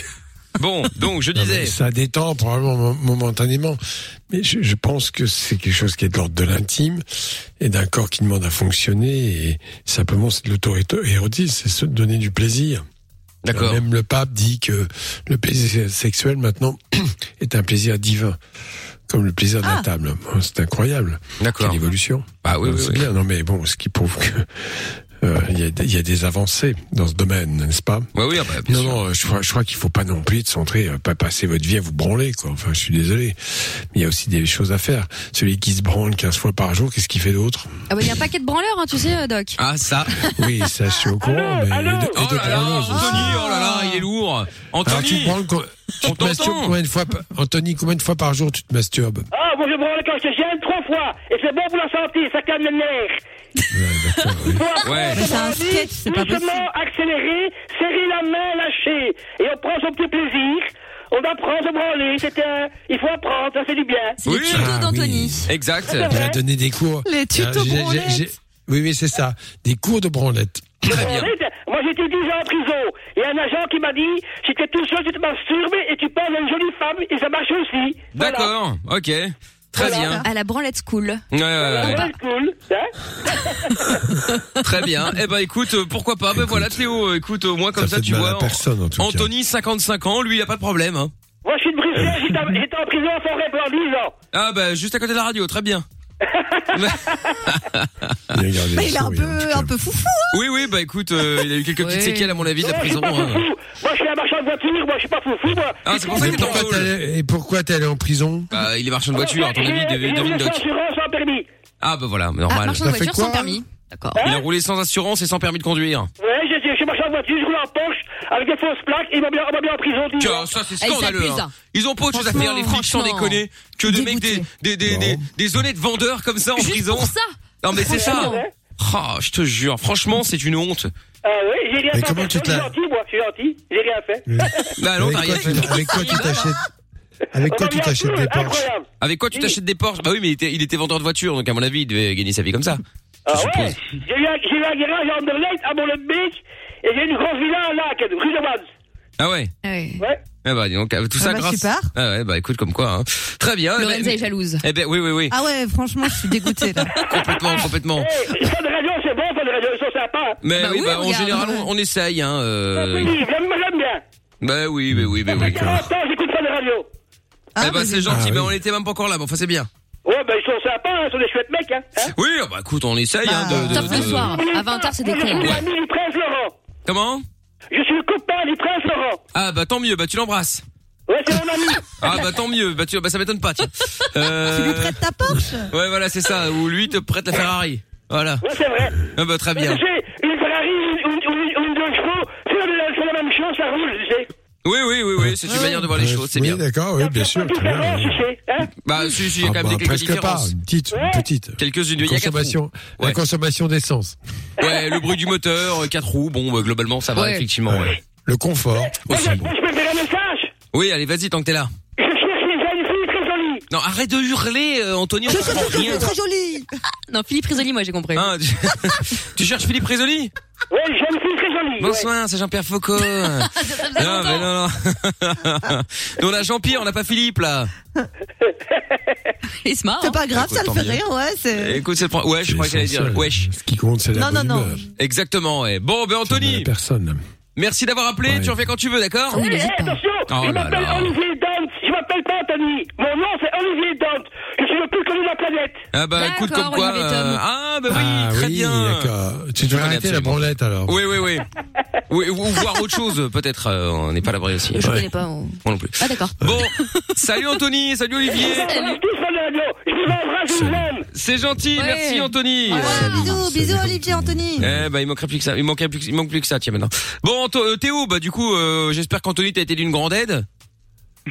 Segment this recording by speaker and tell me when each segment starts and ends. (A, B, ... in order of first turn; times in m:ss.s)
0:00.6-0:01.7 A
0:01.3-0:07.0 B
0:07.6-0:12.8 B
0:13.4-0:13.8 A
0:13.5-0:18.4 B
0:19.1-0:28.1 B
0:21.4-0:21.8 A
0:22.4-0:23.1 A
0:28.1-0:29.0 A
0:28.6-0:37.7 B
0:37.9-0:39.6 C
0:39.6-0:40.2 A
0:40.3-0:43.5 B
0:41.2-0:42.5 D
0:42.1-0:45.4 A
0:44.8-0:49.3 B
0:46.0-0:46.7 A
0:49.3-0:53.2 D
0:53.7-0:54.6 B
0:54.4-1:04.2 D
0:54.8-0:55.3 A
0:55.1-0:56.6 E
1:04.2-1:05.4 C
1:04.2-1:04.7 A
1:04.5-1:05.5 B
1:05.5-1:06.2 A
1:05.9-1:06.4 D
1:06.0-1:11.0 B
1:07.0-1:08.3 E
1:10.8-1:11.3 A
1:10.9-1:18.5 D
1:18.1-1:20.2 A
1:19.8-1:20.1 D
1:19.8-1:20.3 E
1:20.2-1:21.2 C
1:21.3-1:22.0 A
1:21.6-1:24.0 D
1:21.8-1:22.1 C
1:24.6-1:31.1 A
1:26.3-1:26.9 B
1:27.7-1:29.3 B
1:31.4-1:34.1 D
1:32.0-1:32.4 B
1:34.3-1:35.8 A
1:36.2-1:37.4 D
1:36.7-1:38.3 A
1:38.3-1:39.7 B
1:38.7-1:40.4 E
1:40.3-1:43.4 A
1:41.8-1:42.4 C
1:42.6-1:46.6 D
1:45.8-1:46.9 A
1:46.1-1:48.5 B
1:48.5-1:50.6 A
1:49.1-1:51.4 D
1:51.8-1:52.8 A
1:52.5-1:54.2 C
1:52.8-1:53.6 B
1:54.2-1:54.4 D
1:54.2-1:56.1 A
1:56.2-2:00.5 D
2:00.2-2:10.9 A
2:00.8-2:01.5 C
2:02.1-2:03.4 C
2:03.8-2:04.5 E
2:04.8-2:05.3 B
2:06.6-2:08.4 C
2:07.9-2:08.5 D
2:11.2-2:14.7 D
2:11.9-2:12.7 B
2:14.2-2:16.6 B
2:14.8-2:16.1 A
2:15.9-2:16.4 C
2:17.3-2:18.7 B
2:17.4-2:19.5 D
2:19.0-2:23.8 A
2:23.3-2:28.7 D
2:29.2-2:29.5 A
2:29.6-2:30.0 C
2:30.4-2:35.4 A
2:31.2-2:31.9 E
2:33.8-2:34.6 C
2:35.3-2:37.0 E
2:36.8-2:37.0 C
2:37.0-2:38.1 A
2:37.5-2:40.4 D
2:40.4-2:43.2 A
2:40.6-2:41.7 C
2:42.7-2:44.0 D
2:44.4-2:45.8 A
2:44.9-2:45.9 B
2:45.3-2:46.9 D
2:47.6-2:48.2 E
2:47.6-2:49.7 A
2:48.1-2:48.5 B
2:50.0-2:52.1 D
2:52.1-2:54.3 A
2:53.2-2:54.2 E
2:53.5-2:55.6 C
2:54.2-2:56.5 D
2:55.4-2:55.6 A
2:56.8-2:57.2 A
2:57.7-2:59.2 D
2:59.3-3:00.6 A
3:01.1-3:01.9 D
3:02.0-3:05.0 A
3:04.4-3:05.7 E
3:05.7-3:08.4 A
3:08.4-3:09.0 D
3:09.0-3:09.8 A
3:09.5-3:14.3 D
3:14.6-3:16.6 A
3:15.2-3:18.2 B
3:17.0-3:18.7 D
3:18.8-3:20.5 A
3:19.4-3:24.2 B
3:20.9-3:21.2 D
3:21.6-3:23.2 A
3:24.6-3:28.0 A
3:24.6-3:25.0 D
3:27.1-3:27.4 C
3:27.7-3:29.5 B
3:29.0-3:30.5 D
3:30.7-3:31.7 A
3:32.0-3:33.6 D
3:33.7-3:36.1 A
3:35.3-3:36.7 E
3:37.1-3:38.3 C
3:38.1-3:40.3 A
3:40.7-3:42.1 D
3:41.8-3:47.7 A
3:43.2-3:44.5 C
3:49.6-3:50.2 C
3:50.0-3:51.8 E
3:50.3-3:51.0 A
3:51.6-3:53.5 A
3:52.4-3:54.8 B
3:54.1-3:54.8 E
3:55.0-3:56.7 A
3:56.3-3:57.2 B
3:57.6-3:59.4 A
3:58.2-3:58.6 B
3:59.3-4:00.0 C
3:59.3-4:05.8 D
4:00.3-4:01.2 A
4:05.9-4:09.1 A
4:06.2-4:07.4 C
4:07.9-4:11.0 B
4:09.6-4:11.4 A
4:12.1-4:14.9 A
4:14.7-4:17.1 C
4:14.8-4:15.1 B
4:15.6-4:18.7 A
4:18.4-4:21.0 D
4:18.6-4:19.0 C
4:20.5-4:20.9 B
4:21.1-4:23.3 A
4:21.8-4:23.3 C
4:22.7-4:24.6 E
4:22.9-4:24.9 B
4:24.6-4:30.4 A